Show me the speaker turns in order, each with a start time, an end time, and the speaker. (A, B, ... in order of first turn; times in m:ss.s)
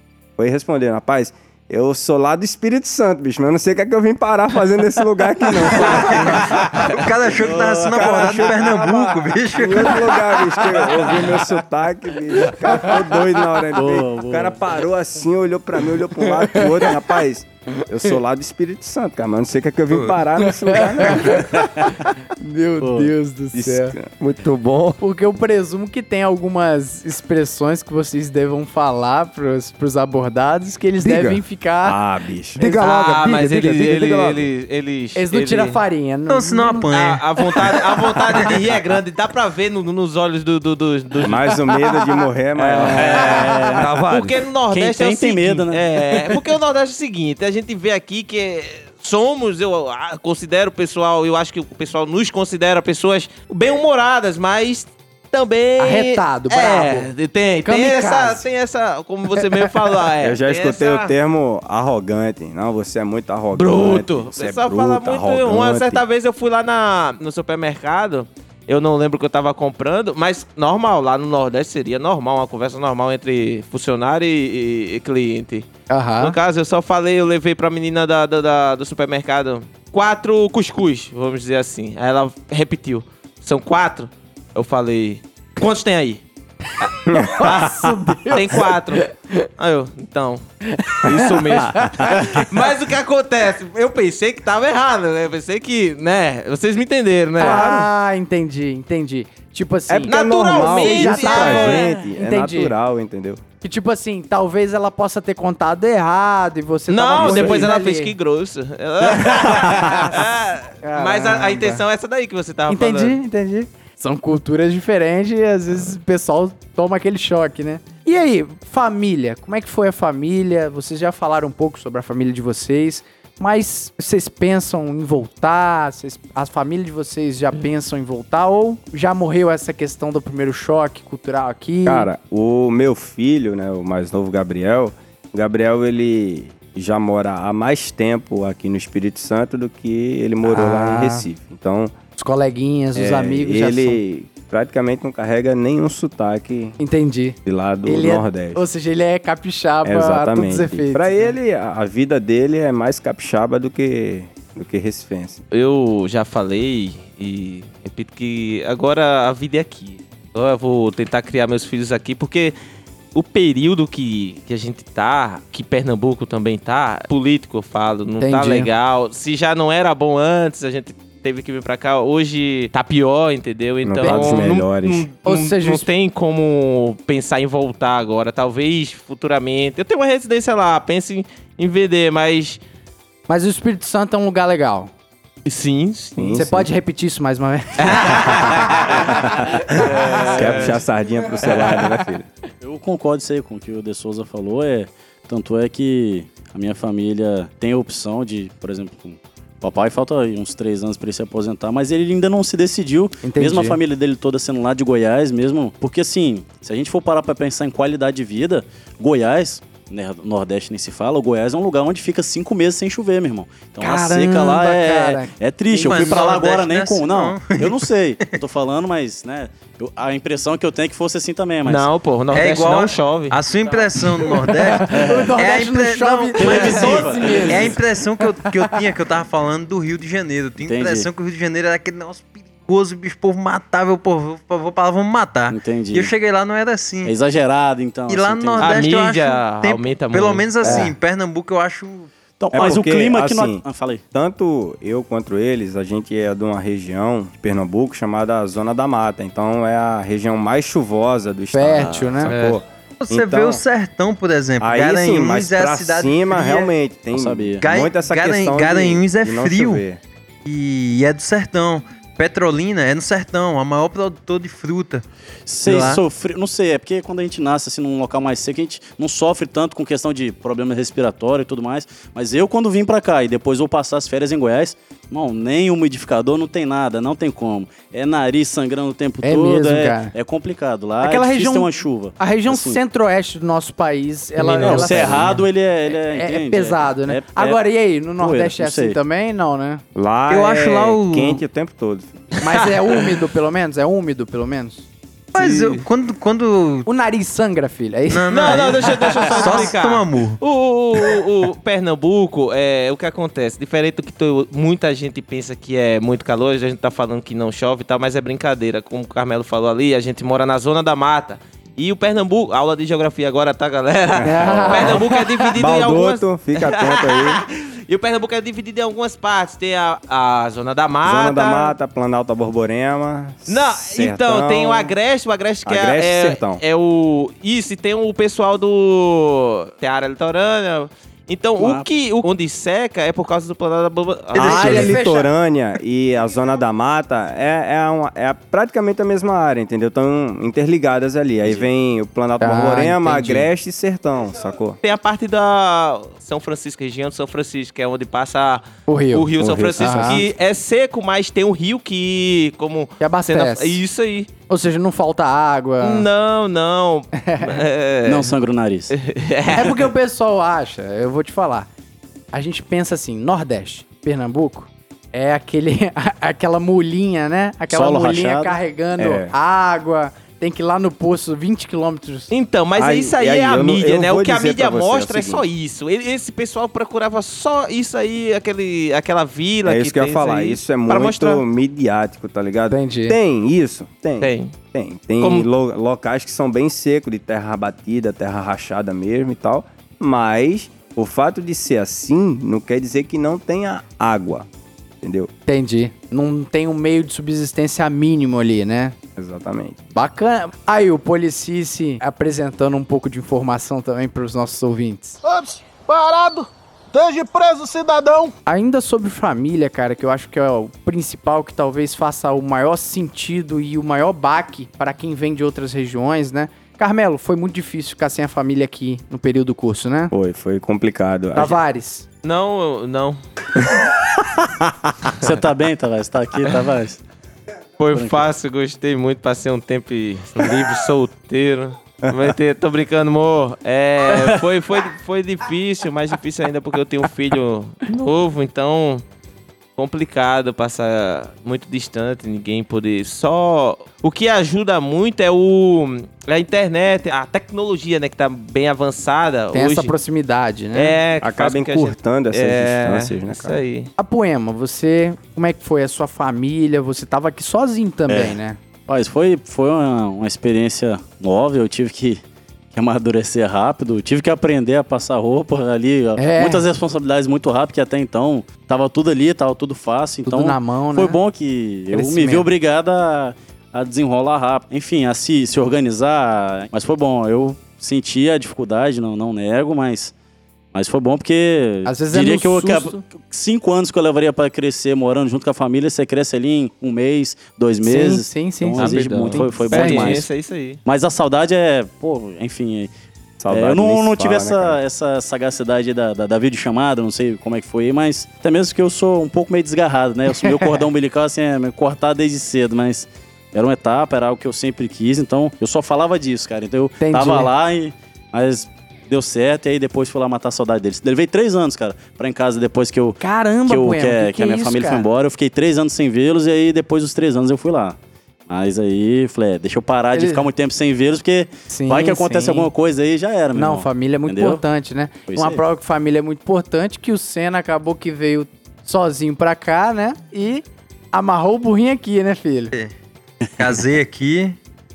0:00.4-0:21.6 A
0:05.7-0:10.0 B
0:07.4-0:08.3 C
0:09.9-0:11.3 D
0:12.4-0:13.1 D
0:13.7-0:14.6 C
0:16.2-0:17.0 D
0:20.4-0:24.0 D
0:22.8-0:23.1 C
0:23.5-0:24.1 A
0:24.2-0:25.0 E
0:25.0-0:32.0 D
0:31.0-0:31.3 E
0:31.8-0:32.6 A
0:32.6-0:33.7 D
0:32.6-0:34.4 E
0:32.8-0:35.8 F
0:35.1-0:36.9 D
0:36.3-0:37.8 B
0:36.9-0:41.5 F
0:41.2-0:43.5 A
0:42.6-0:43.9 C
0:42.8-0:43.7 D
0:43.7-0:44.4 E
0:44.1-1:01.1 F
0:44.7-0:46.4 C
0:55.8-0:57.1 D
0:57.6-0:58.5 D
0:59.4-0:59.7 D
1:00.2-1:06.0 A
1:03.5-1:15.7 F
1:15.9-1:16.4 D
1:16.2-1:26.2 F
1:27.1-1:27.9 A
1:27.1-1:29.1 D
1:28.3-1:30.4 F
1:30.7-1:32.4 D
1:31.0-1:37.6 F
1:31.7-1:32.2 A
1:37.4-1:42.7 D
1:37.4-1:37.9 A
1:39.9-1:43.4 A
1:40.1-1:42.0 F
1:43.6-1:48.1 D
1:46.9-1:53.2 F
1:47.2-1:47.7 A
1:49.2-1:50.2 D
1:50.8-1:51.8 D
1:52.7-2:12.1 D
2:11.8-2:21.9 A
2:20.4-2:21.2 D
2:22.2-2:24.0 D
2:22.9-2:26.8 A
2:26.8-2:31.2 D
2:27.4-2:28.6 A
2:29.8-2:35.4 A
2:35.5-2:42.5 F
2:43.1-3:02.6 F
2:48.2-2:48.7 D
2:53.8-2:55.1 A
2:54.0-2:54.5 D
2:55.2-2:55.9 D
3:03.3-3:04.9 D
3:05.4-3:06.4 F
3:06.2-3:06.7 A
3:06.3-3:09.9 D
3:07.8-3:09.0 F
3:09.7-3:12.3 A
3:09.7-3:10.8 F
3:09.8-3:10.8 C
3:12.6-3:41.9 C
3:23.2-3:23.8 D
3:33.8-3:36.1 D
3:35.7-3:38.4 B
3:41.6-3:43.4 F
3:42.3-3:57.2 B
3:44.0-3:48.8 D
3:44.9-3:45.3 C
3:46.4-3:47.8 C
3:50.6-3:51.1 C
3:55.5-3:56.1 C
3:57.0-3:58.8 C
3:58.1-4:02.1 B
3:58.6-4:00.8 F
4:00.6-4:00.9 C
4:02.4-4:04.0 C
4:02.5-4:13.6 A
4:11.5-4:12.3 D
4:11.8-4:12.0 C
4:12.3-4:12.6 F
4:13.0-4:16.7 B
4:14.6-4:20.0 A
4:17.1-4:17.6 C
4:17.6-4:19.8 B
4:20.4-4:25.0 B
4:25.5-4:42.8 C
4:25.6-4:26.0 B
4:39.2-4:40.1 D
4:41.0-4:49.8 D
4:44.4-4:47.6 C
4:48.2-4:49.0 C
4:49.9-4:52.2 A
4:50.3-4:51.4 B
4:52.4-4:54.8 D
4:52.5-4:53.1 F
4:55.3-4:55.8 F
4:55.3-4:56.9 B
4:56.9-4:59.7 D
4:58.1-5:00.4 B
4:58.3-5:21.7 F
5:14.2-5:15.0 A
5:14.2-5:15.4 D
5:15.6-5:17.4 A
5:21.0-5:25.0 A
5:23.5-5:35.0 F
5:25.6-5:26.6 A
5:31.6-5:31.9 C
5:34.3-5:44.8 A
5:34.4-5:35.3 D
5:42.4-5:43.5 D
5:44.8-5:54.3 F
5:48.9-5:50.2 D
5:49.4-5:50.2 A
5:53.0-5:53.8 D
5:54.5-5:56.1 D
5:55.8-5:58.3 F
5:57.2-5:57.6 D
5:58.0-5:58.9 C
5:58.9-5:59.9 F
5:59.5-6:01.7 D
6:02.3-6:12.3 D
6:07.7-6:08.6 C
6:09.0-6:09.3 A
6:12.3-6:21.4 F
6:12.8-6:15.4 A
6:19.6-6:34.5 A
6:22.7-6:23.2 D
6:24.2-6:24.5 F
6:25.2-6:25.5 F
6:35.0-6:35.3 A
6:35.5-6:38.9 D
6:39.2-6:39.8 A
6:39.9-6:45.2 D
6:45.2-6:48.3 G
6:48.4-7:00.1 D
7:00.1-7:01.6 A
7:01.3-7:02.0 D
7:02.2-7:03.2 F
7:05.2-7:07.0 C
7:07.8-7:19.0 F
7:07.9-7:08.2 C
7:19.8-7:29.9 F
7:29.5-7:31.0 D
7:30.7-7:33.9 F
7:31.2-7:33.6 A
7:34.0-7:38.6 D
7:38.1-7:38.4 C
7:38.9-7:42.2 C
7:42.7-8:00.1 C
7:46.2-7:46.7 D
7:50.2-7:51.2 D
7:51.9-7:52.5 D
8:00.7-8:10.3 C
8:01.8-8:03.0 D
8:07.8-8:10.2 D
8:08.8-8:10.8 F
8:10.8-8:12.9 C
8:13.4-8:14.8 A
8:13.5-8:38.0 C
8:20.4-8:20.7 D
8:27.0-8:27.5 D
8:33.2-8:35.0 D
8:38.5-8:44.6 C
8:40.1-8:40.4 D
8:41.7-8:42.7 D
8:43.5-8:52.7 D
8:45.3-8:45.6 C
8:53.6-8:54.6 B